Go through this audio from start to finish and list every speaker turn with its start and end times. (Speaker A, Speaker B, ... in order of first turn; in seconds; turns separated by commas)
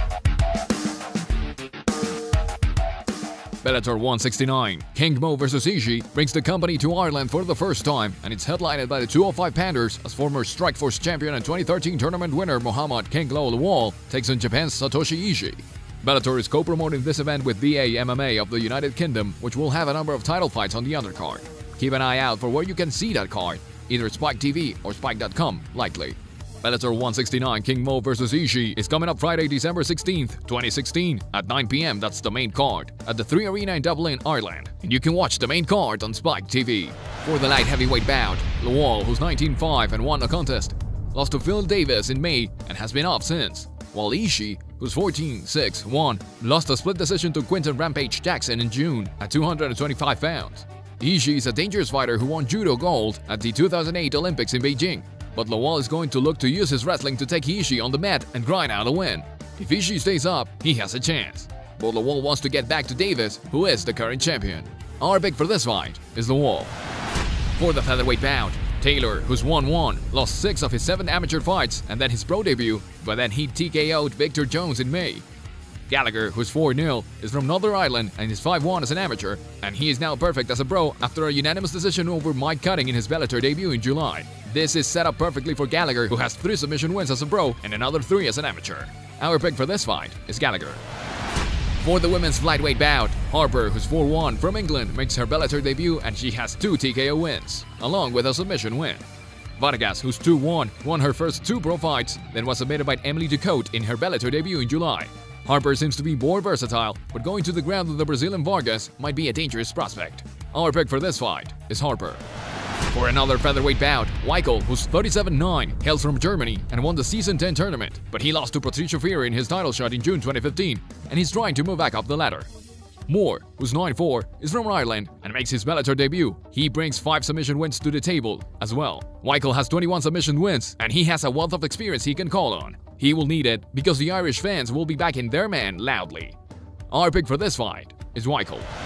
Speaker A: 3.6-66.7, Speaker A: 67.6-75.2, Speaker A: 75.9-90.8, Speaker A: 91.8-99.0, Speaker A: 99.6-112.2, Speaker A: 112.9-122.5, Speaker A: 123.1-136.4, Speaker A: 136.9-138.7